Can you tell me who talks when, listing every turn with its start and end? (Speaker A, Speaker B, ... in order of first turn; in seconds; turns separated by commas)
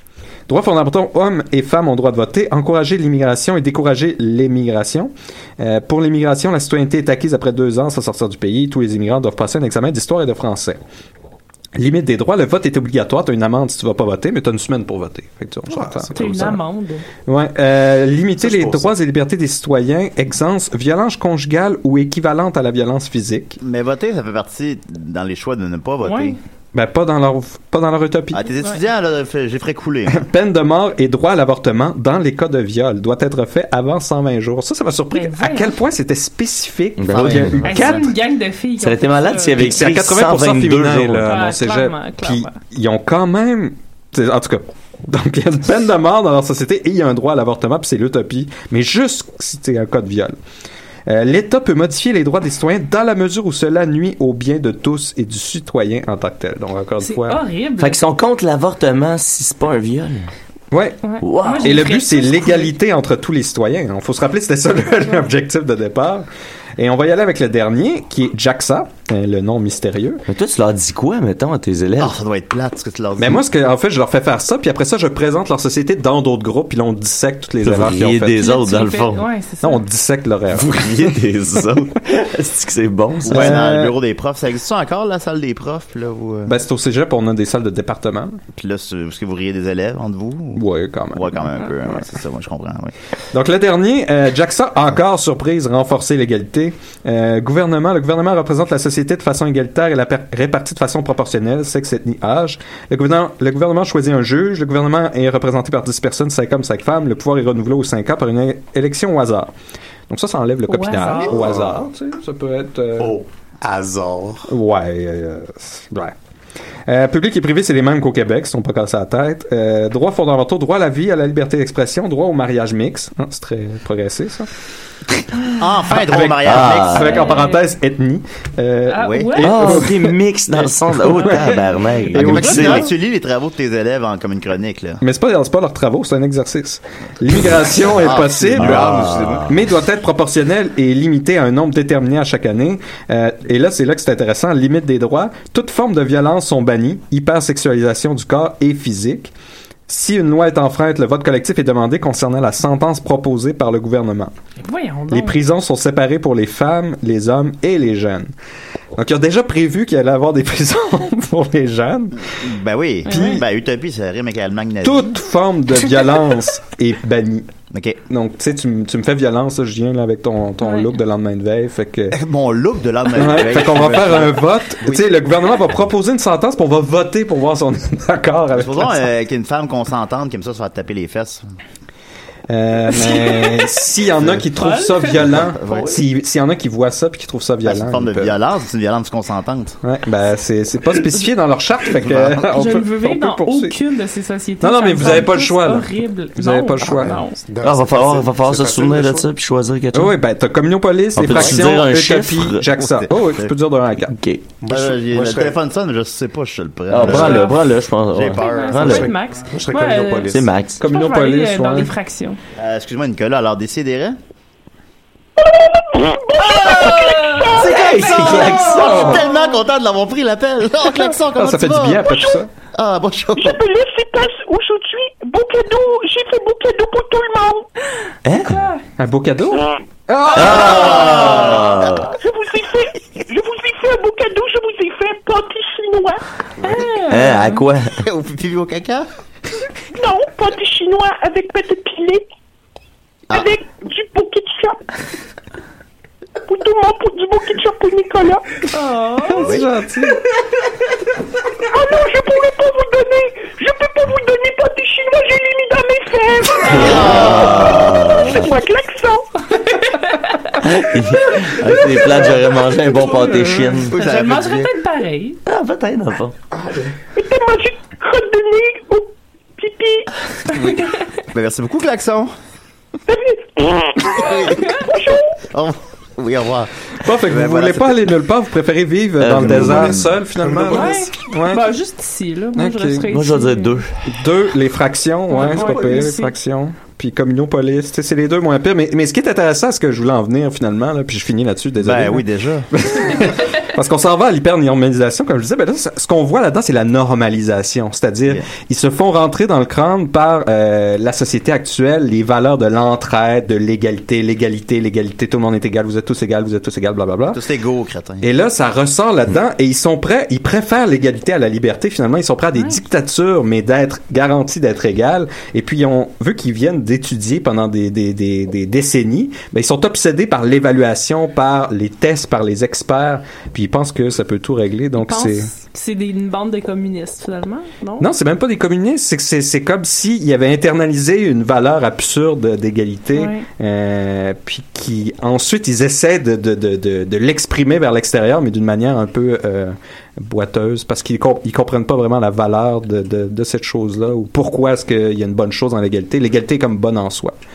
Speaker A: 0.5-10.8, Speaker A: 11.8-16.6, Speaker B: 15.7-16.2, Speaker C: 16.1-17.1, Speaker A: 17.2-23.6, Speaker D: 18.5-18.8, Speaker D: 23.6-26.4, Speaker C: 26.0-26.4, Speaker A: 26.7-28.4, Speaker D: 28.3-30.2, Speaker A: 30.1-38.1, Speaker C: 35.1-35.8, Speaker E: 37.0-37.7, Speaker D: 37.1-38.0, Speaker C: 37.7-39.8, Speaker E: 38.8-41.3, Speaker A: 39.5-50.4, Speaker C: 41.2-42.5, Speaker A: 51.1-57.4, Speaker C: 57.0-58.0, Speaker E: 57.8-60.3, Speaker A: 60.7-66.2, Speaker C: 61.0-62.7, Speaker E: 61.2-61.9, Speaker A: 66.8-70.2, Speaker E: 70.3-72.2, Speaker D: 72.0-73.4, Speaker A: 73.2-78.5, Speaker E: 77.6-79.2, Speaker C: 78.4-79.8, Speaker A: 79.6-80.7, Speaker E: 80.5-83.6, Speaker D: 81.0-81.8, Speaker D: 83.2-86.6, Speaker A: 83.2-83.9, Speaker A: 86.5-88.4, Speaker D: 88.5-92.9, Speaker A: 90.5-91.4, Speaker A: 93.3-109.5, Speaker A: 110.1-113.2, Speaker C: 110.7-111.4, Speaker B: 111.3-111.8, Speaker B: 113.0-114.5, Speaker A: 114.5-116.1, Speaker A: 116.8-124.5, Speaker D: 125.6-127.2, Speaker A: 125.9-131.6, Speaker E: 126.4-127.2, Speaker C: 127.1-127.6, Speaker C: 128.9-129.8, Speaker D: 129.0-129.4, Speaker E: 129.4-132.9, Speaker C: 131.2-131.7, Speaker A: 132.1-132.9, Speaker D: 132.1-135.0, Speaker A: 135.0-149.3, Speaker D: 138.0-139.5, Speaker E: 138.6-139.1, Speaker A: 149.9-154.3, Speaker C: 154.6-155.4, Speaker A: 155.1-158.3, Speaker A: 158.9-162.3, Speaker D: 162.3-165.2, Speaker C: 163.1-163.4, Speaker A: 163.1-163.4, Speaker A: 164.8-167.5, Speaker D: 167.7-168.0, Speaker A: 168.1-172.2, Speaker C: 170.6-170.9, Speaker D: 172.1-175.0, Speaker A: 173.1-179.1, Speaker D: 178.5-181.6, Speaker A: 182.5-188.3, Speaker C: 182.9-183.8, Speaker C: 184.6-185.1, Speaker D: 185.1-186.0, Speaker D: 187.6-189.8, Speaker A: 189.8-193.8, Speaker D: 192.0-192.4, Speaker C: 192.5-197.4, Speaker A: 194.6-197.2, Speaker B: 196.9-199.3, Speaker E: 197.6-200.2, Speaker A: 199.9-204.1, Speaker E: 201.1-202.7, Speaker D: 202.8-203.5, Speaker E: 204.1-204.4, Speaker B: 204.6-205.6, Speaker D: 204.7-209.1, Speaker E: 206.9-209.1, Speaker C: 207.0-207.6, Speaker C: 208.3-212.4, Speaker B: 209.4-210.5, Speaker E: 210.3-210.8, Speaker A: 210.8-211.9, Speaker D: 212.6-214.2, Speaker F: 215.4-217.8, Speaker D: 216.4-222.2, Speaker C: 216.8-219.5, Speaker A: 217.6-219.2, Speaker E: 217.7-219.1, Speaker A: 221.3-222.5, Speaker F: 222.0-222.4, Speaker D: 222.7-223.6, Speaker F: 223.3-227.7, Speaker E: 228.2-228.6, Speaker C: 228.4-228.8, Speaker A: 229.0-231.1, Speaker E: 230.3-232.1, Speaker D: 230.4-232.0, Speaker C: 231.1-231.4, Speaker F: 232.1-236.2, Speaker C: 236.6-237.6, Speaker E: 237.1-238.0, Speaker D: 238.0-239.1, Speaker F: 239.9-242.2, Speaker F: 243.3-244.8, Speaker F: 246.4-248.4, Speaker C: 248.7-249.5, Speaker A: 249.3-250.2, Speaker D: 249.4-249.7, Speaker F: 251.7-259.2, Speaker D: 256.6-258.2, Speaker C: 256.7-257.1, Speaker E: 256.8-258.5, Speaker C: 259.5-260.6, Speaker E: 260.6-264.0, Speaker C: 263.1-265.4, Speaker D: 263.8-264.7, Speaker E: 265.4-266.4, Speaker B: 266.6-266.9, Speaker F: 267.1-270.1, Speaker C: 270.5-270.8, Speaker D: 271.3-272.3, Speaker F: 273.1-275.2, Speaker D: 274.2-274.6, Speaker D: 275.5-278.1, Speaker A: 277.0-281.7, Speaker E: 279.2-280.1, Speaker D: 279.4-280.0, Speaker B: 280.4-280.9, Speaker C: 280.7-283.8, Speaker A: 282.5-283.1, Speaker E: 283.1-283.9, Speaker A: 284.1-307.4, Speaker C: 285.3-286.3, Speaker D: 291.8-292.7, Speaker D: 307.3-308.3, Speaker A: 308.2-325.5, Speaker C: 324.9-328.1, Speaker A: 328.0-347.4, Speaker C: 333.1-333.4